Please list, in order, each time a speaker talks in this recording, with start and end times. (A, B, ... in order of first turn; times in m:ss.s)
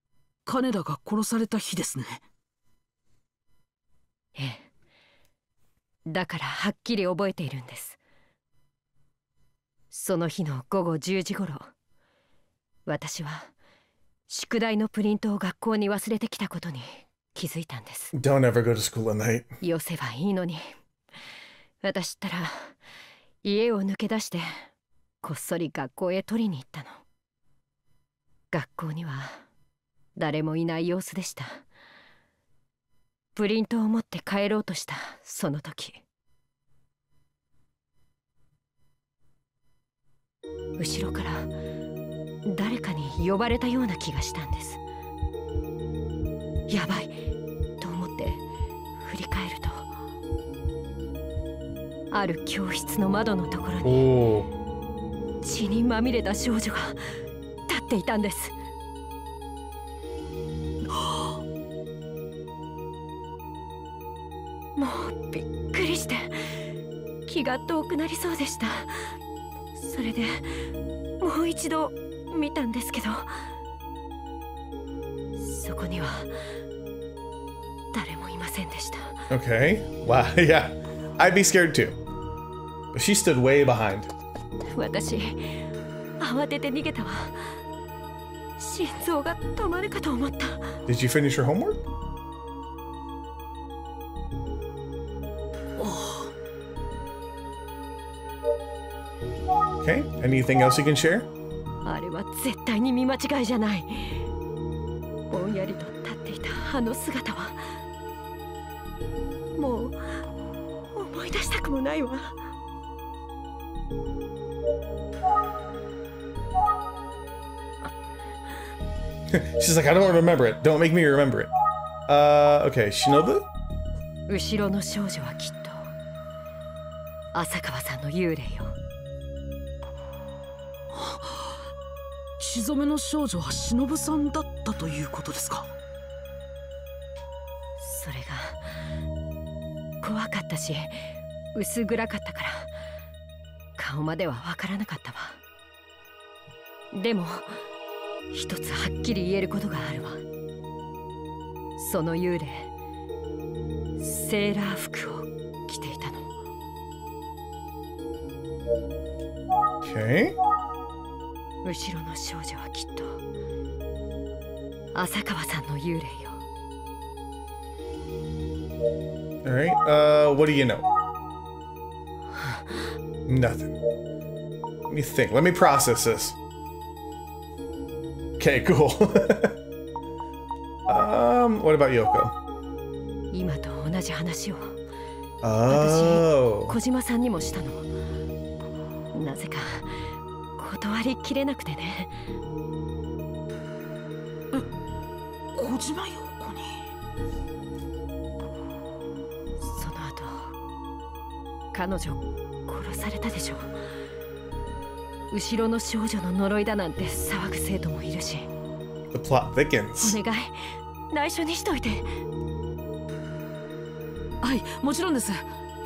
0:00.5-0:02.2 A
0:04.4-0:04.7 B
0:06.1-0:08.0 B
0:09.9-0:11.7 B
0:12.9-0:13.5 B
0:14.3-0:18.1 B
0:18.1-0:19.5 C
0:19.6-0:20.6 B
0:21.8-0:22.8 B
0:23.4-0:24.6 B
0:25.2-0:27.0 B
0:28.5-0:29.4 B
0:30.2-0:31.6 B
0:33.4-0:36.0 B
0:40.8-0:41.5 B
0:42.4-0:44.8 B
0:46.7-0:47.2 B
0:47.8-0:48.4 B
0:49.0-0:49.9 B
0:52.1-0:54.1 B
0:53.8-0:54.5 C
0:55.4-0:57.0 B
0:57.7-0:58.5 B
1:00.9-1:01.4 A
1:04.8-1:06.6 B
1:07.3-1:09.1 B
1:09.8-1:10.6 B
1:11.2-1:13.4 B
1:15.4-1:16.3 B
1:17.9-1:19.3 B
1:19.3-1:22.0 C
1:22.9-1:24.1 C
1:24.7-1:25.6 B
1:26.2-1:27.6 B
1:28.6-1:30.8 B
1:30.9-1:31.8 C
1:35.8-1:36.3 A
1:39.8-1:41.3 C
1:41.8-1:44.2 B
1:45.3-1:47.7 B
1:49.6-1:50.2 B
1:50.9-1:52.4 B
1:59.3-2:01.5 C
2:02.1-2:03.5 C
2:04.3-2:05.8 B
2:07.3-2:08.8 B
2:10.9-2:11.7 A
2:12.4-2:15.7 A
2:17.8-2:18.7 B
2:20.0-2:21.0 B
2:21.5-2:22.7 B
2:23.8-2:25.4 B
2:26.9-2:27.6 B
2:28.3-2:30.2 B
2:31.8-2:32.7 B
2:34.0-2:36.3 B
2:39.8-2:40.4 C
2:41.6-2:43.2 B
2:44.9-2:46.4 B
2:49.4-2:50.9 C
2:52.4-2:52.8 B
2:53.3-2:53.7 C
2:54.9-2:56.4 C
2:58.4-2:59.6 C
3:00.9-3:02.4 C
3:03.3-3:04.8 B
3:05.4-3:06.8 C
3:05.7-3:07.9 B
3:09.1-3:10.0 B
3:10.6-3:12.1 B
3:15.5-3:16.9 A
3:19.6-3:20.5 B
3:21.7-3:23.8 B
3:25.3-3:28.5 B
3:29.1-3:30.2 C
3:30.0-3:32.1 B
3:34.4-3:35.5 A